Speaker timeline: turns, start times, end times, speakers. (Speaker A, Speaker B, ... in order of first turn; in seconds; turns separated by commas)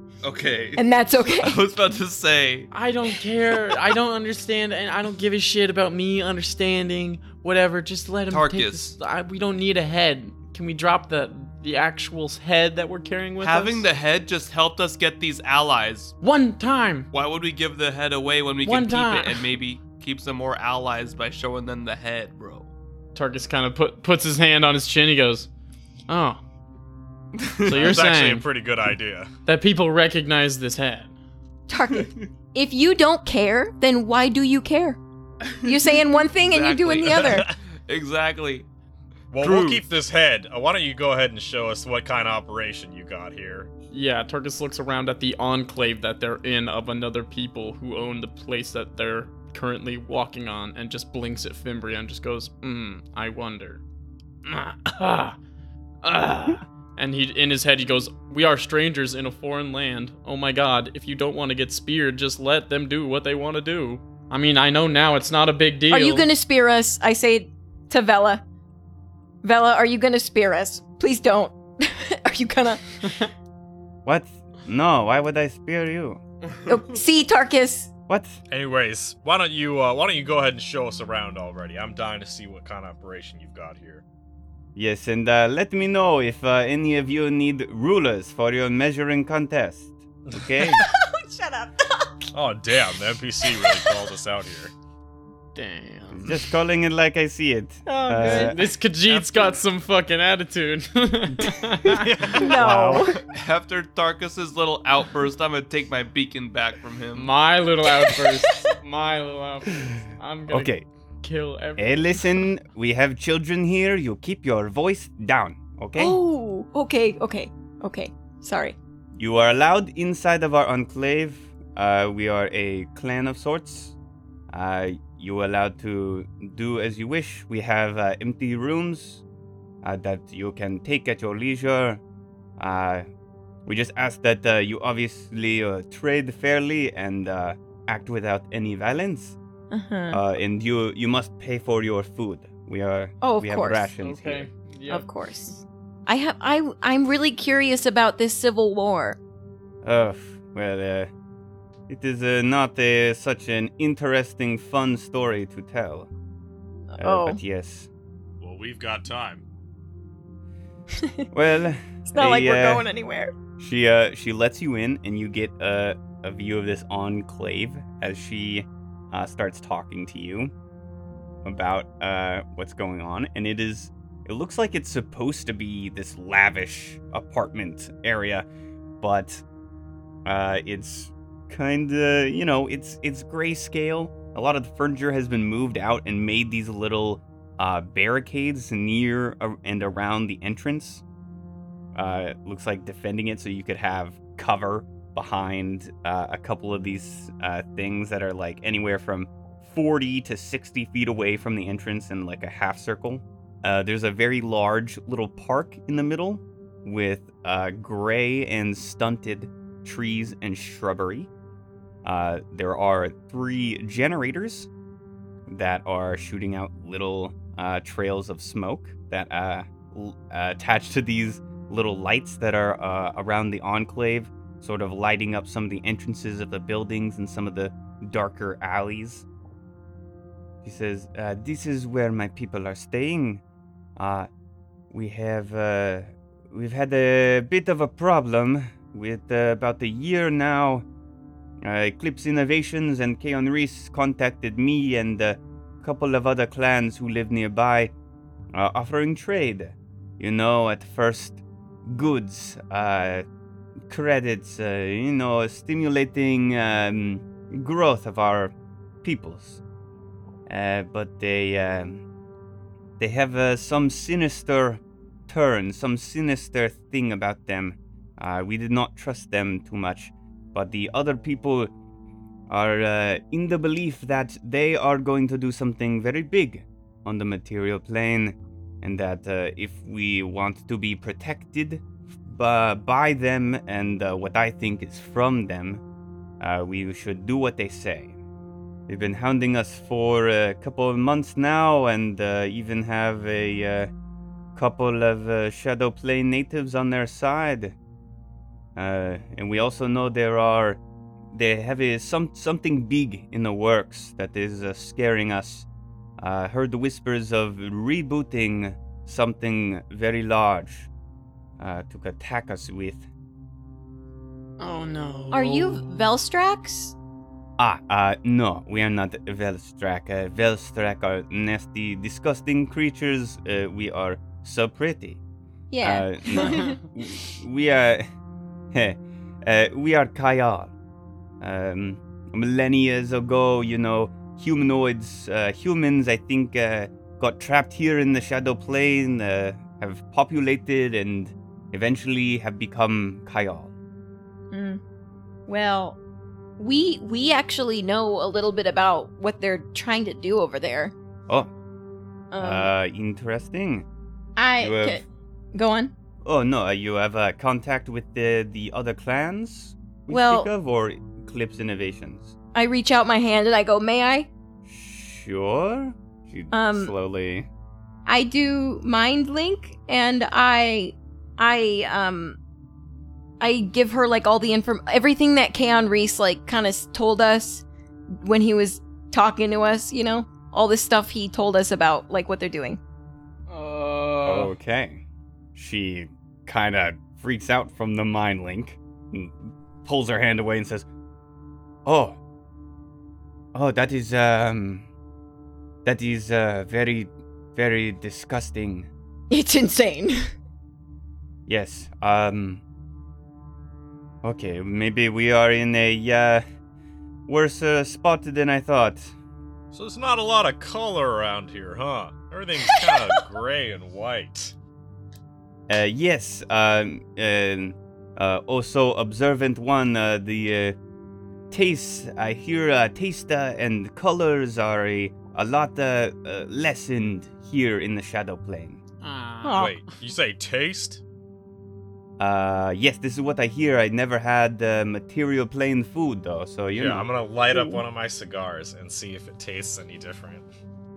Speaker A: 0.2-2.7, Speaker B: 0.8-1.6, Speaker C: 2.7-13.8, Speaker A: 8.3-8.9, Speaker A: 13.4-16.1, Speaker C: 16.2-17.1, Speaker A: 17.1-22.7, Speaker C: 18.6-19.4, Speaker C: 23.1-25.5, Speaker C: 26.1-26.4, Speaker A: 27.4-27.9, Speaker C: 27.6-28.4, Speaker D: 27.7-29.3, Speaker C: 29.4-31.1, Speaker B: 31.7-35.0, Speaker A: 35.5-38.7, Speaker B: 35.6-37.5, Speaker D: 37.0-37.5, Speaker D: 39.3-43.7, Speaker A: 39.4-39.8, Speaker C: 43.9-53.8, Speaker C: 54.4-55.4, Speaker C: 56.0-66.3, Speaker B: 65.9-68.4, Speaker B: 69.4-72.8, Speaker E: 74.0-76.2, Speaker B: 76.7-77.9, Speaker E: 78.1-78.4, Speaker D: 78.5-84.0, Speaker E: 84.8-90.8, Speaker D: 90.3-90.7, Speaker B: 90.8-92.3, Speaker D: 92.3-94.7, Speaker C: 95.5-96.4, Speaker E: 96.1-98.6, Speaker B: 97.8-98.6, Speaker C: 98.2-102.0, Speaker D: 99.0-99.6, Speaker D: 101.9-102.5, Speaker B: 102.3-103.2, Speaker E: 102.5-103.1, Speaker A: 102.8-107.3, Speaker C: 107.1-112.4, Speaker B: 107.9-108.7, Speaker E: 110.5-110.8, Speaker E: 111.8-116.2, Speaker B: 116.0-118.8, Speaker E: 119.1-124.0, Speaker E: 124.5-129.2, Speaker E: 129.8-132.0, Speaker E: 132.6-133.1, Speaker E: 133.7-139.4, Speaker B: 139.7-140.2, Speaker E: 140.1-144.5, Speaker B: 143.2-143.9, Speaker C: 144.0-145.1, Speaker B: 144.9-149.2, Speaker E: 149.8-151.1, Speaker E: 151.9-156.1, Speaker B: 156.9-157.4, Speaker E: 157.0-157.9, Speaker D: 158.4-159.4, Speaker B: 161.0-161.2, Speaker E: 161.3-162.9, Speaker B: 162.1-163.3, Speaker E: 163.6-170.5, Speaker E: 171.4-178.4, Speaker E: 179.0-179.4, Speaker E: 180.2-191.0, Speaker E: 191.9-211.3, Speaker E: 212.0-214.7, Speaker E: 215.5-229.2, Speaker E: 230.6-233.4, Speaker E: 234.0-234.3, Speaker E: 234.9-240.8, Speaker E: 241.6-247.9, Speaker E: 248.5-253.2, Speaker E: 253.9-259.6, Speaker E: 260.5-262.0, Speaker E: 263.0-271.7, Speaker E: 272.5-285.8, Speaker E: 286.4-288.1, Speaker E: 288.9-293.9, Speaker E: 294.5-297.8, Speaker E: 298.8-300.8, Speaker E: 301.3-305.7, Speaker E: 306.2-310.9, Speaker E: 311.6-313.1, Speaker C: 314.6-316.0, Speaker B: 315.3-316.9, Speaker E: 317.6-325.2, Speaker B: 325.7-326.9, Speaker E: 325.8-328.0, Speaker E: 328.7-330.7, Speaker E: 331.4-343.7, Speaker B: 344.5-344.8, Speaker B: 345.5-346.0, Speaker B: 346.6-350.9, Speaker B: 352.3-352.7, Speaker E: 352.4-353.9, Speaker B: 354.4-355.0, Speaker E: 354.6-355.0, Speaker B: 355.5-355.9, Speaker E: 356.2-362.3, Speaker B: 360.1-360.5, Speaker B: 362.5-364.3, Speaker E: 364.6-367.5, Speaker B: 366.5-366.9, Speaker B: 368.1-372.4, Speaker B: 373.4-377.6, Speaker B: 378.2-382.8, Speaker C: 383.5-384.5, Speaker E: 384.2-385.0, Speaker E: 385.5-390.9, Speaker E: 391.8-392.2, Speaker E: 393.5-394.9, Speaker E: 395.8-398.9, Speaker B: 399.3-400.2, Speaker E: 401.5-402.6, Speaker E: 404.2-406.4, Speaker E: 407.3-409.1, Speaker D: 409.7-414.5, Speaker B: 412.8-413.1, Speaker E: 415.7-420.8, Speaker E: 421.5-428.8, Speaker C: 429.0-429.7, Speaker B: 429.4-429.7, Speaker D: 429.6-431.0, Speaker E: 432.2-437.8, Speaker D: 436.7-440.5